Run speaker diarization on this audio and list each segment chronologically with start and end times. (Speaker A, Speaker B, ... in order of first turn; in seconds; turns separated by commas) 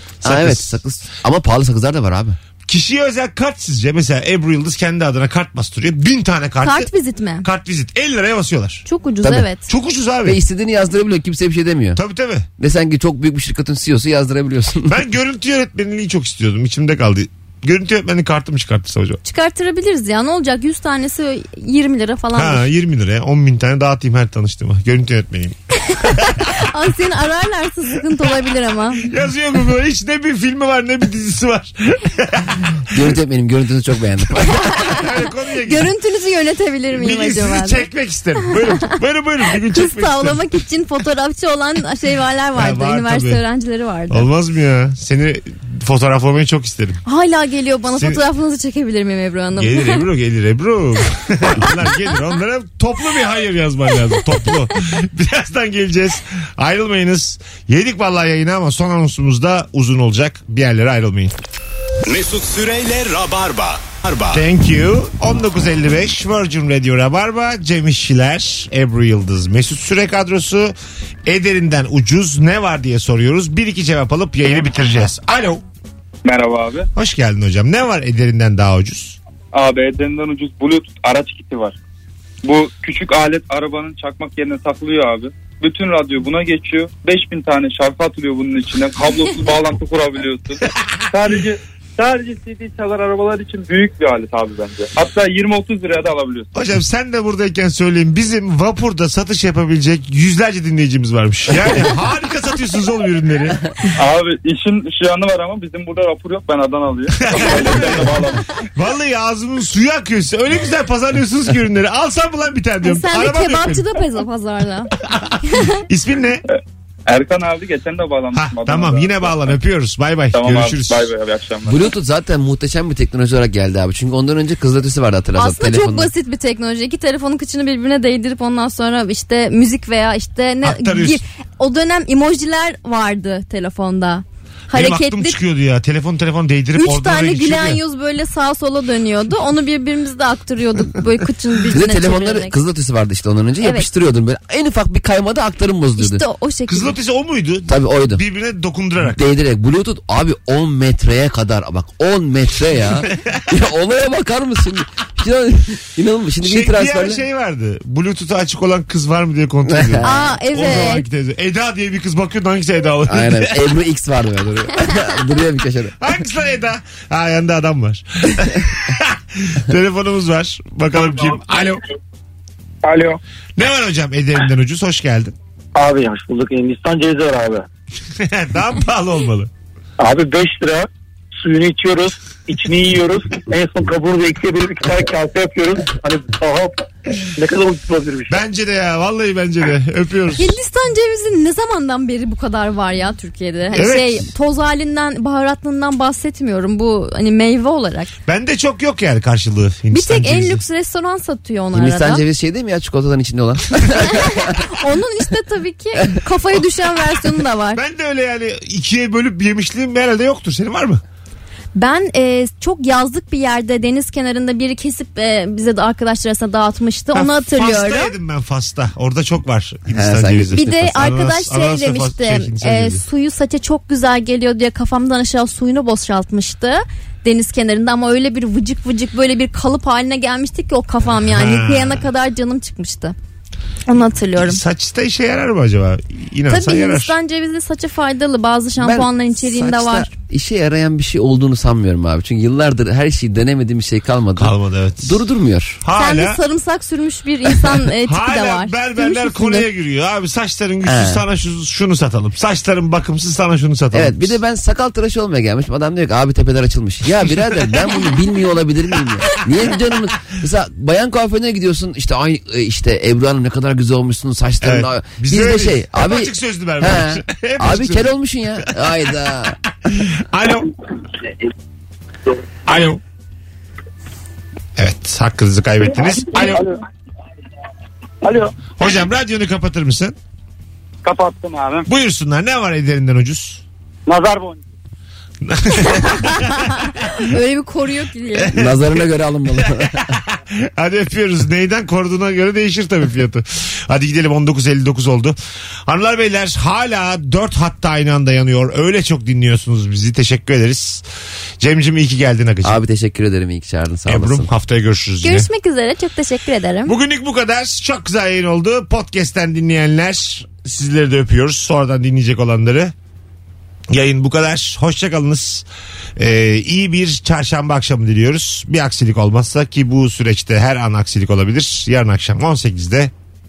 Speaker A: 0.2-0.7, Speaker B: 0.2-2.4, Speaker A: 2.7-6.9, Speaker C: 6.6-7.5, Speaker A: 7.4-8.9, Speaker C: 8.9-9.7, Speaker A: 9.7-10.4, Speaker B: 10.2-12.0, Speaker A: 11.9-12.5, Speaker B: 12.6-15.0, Speaker A: 14.9-19.2, Speaker C: 19.2-22.6, Speaker A: 22.4-26.6, Speaker C: 26.5-29.1, Speaker A: 29.0-33.0, Speaker B: 32.9-34.6, Speaker A: 34.4-35.9, Speaker C: 34.7-35.0, Speaker C: 35.6-37.9, Speaker A: 36.9-40.4, Speaker C: 39.6-44.3, Speaker A: 42.6-43.4, Speaker A: 44.1-47.0, Speaker C: 47.1-50.0, Speaker A: 48.0-48.2, Speaker A: 49.5-61.3, Speaker D: 62.1-64.4, Speaker A: 64.3-70.7, Speaker A: 71.3-75.6, Speaker E: 76.2-76.9, Speaker A: 77.0-79.2, Speaker E: 79.5-81.8, Speaker E: 82.4-96.5, Speaker A: 96.5-103.7, Speaker E: 104.0-108.5, Speaker A: 107.2-108.2, Speaker A: 108.8-113.8, Speaker C: 112.8-114.9, Speaker A: 115.1-116.4, Speaker C: 115.4-115.8, Speaker E: 116.5-119.6, Speaker A: 118.3-121.1, Speaker E: 120.3-121.9, Speaker B: 121.7-126.1, Speaker C: 125.4-135.4, Speaker A: 130.6-131.2, Speaker A: 134.7-137.8, Speaker C: 136.8-142.6, Speaker B: 141.7-146.2, Speaker C: 143.6-143.9, Speaker C: 146.0-146.9, Speaker A: 146.7-149.2, Speaker B: 147.7-148.2, Speaker B: 149.0-157.2, Speaker A: 156.4-163.6, Speaker B: 159.7-160.1, Speaker C: 160.0-161.1, Speaker B: 163.1-166.0, Speaker A: 166.0-171.8, Speaker F: 172.8-173.2, Speaker A: 173.6-175.3, Speaker F: 175.8-177.7, Speaker A: 178.1-179.5, Speaker F: 180.0-188.4, Speaker A: 188.3-190.6, Speaker C: 190.4-198.1, Speaker A: 193.7-194.3, Speaker A: 198.3-200.6, Speaker C: 199.9-202.2, Speaker B: 201.7-204.7, Speaker C: 204.1-207.8, Speaker A: 207.8-211.0, Speaker C: 211.8-218.1, Speaker A: 217.1-223.0, Speaker B: 219.9-220.8, Speaker C: 220.6-233.2, Speaker A: 231.2-232.1, Speaker C: 233.9-234.6, Speaker A: 234.3-237.1, Speaker C: 236.5-240.2, Speaker B: 238.8-245.8, Speaker A: 244.4-245.2, Speaker A: 245.8-246.4, Speaker C: 245.9-249.7, Speaker A: 248.0-254.3, Speaker B: 250.8-251.2, Speaker B: 253.9-269.6, Speaker A: 264.6-268.1, Speaker A: 269.9-270.7, Speaker A: 272.7-273.0, Speaker A: 274.8-276.6, Speaker F: 276.4-276.8, Speaker F: 278.2-278.5, Speaker A: 278.8-280.2, Speaker F: 281.0-281.9, Speaker A: 281.9-283.6, Speaker F: 284.1-284.6, Speaker A: 285.4-286.9, Speaker C: 286.1-288.6, Speaker A: 288.4-289.0, Speaker B: 288.5-290.0, Speaker A: 289.6-301.0, Speaker A: 301.6-302.8, Speaker B: 302.6-304.5, Speaker A: 304.1-305.5, Speaker C: 305.2-306.9, Speaker A: 306.9-312.9, Speaker A: 313.9-315.6, Speaker A: 316.2-323.1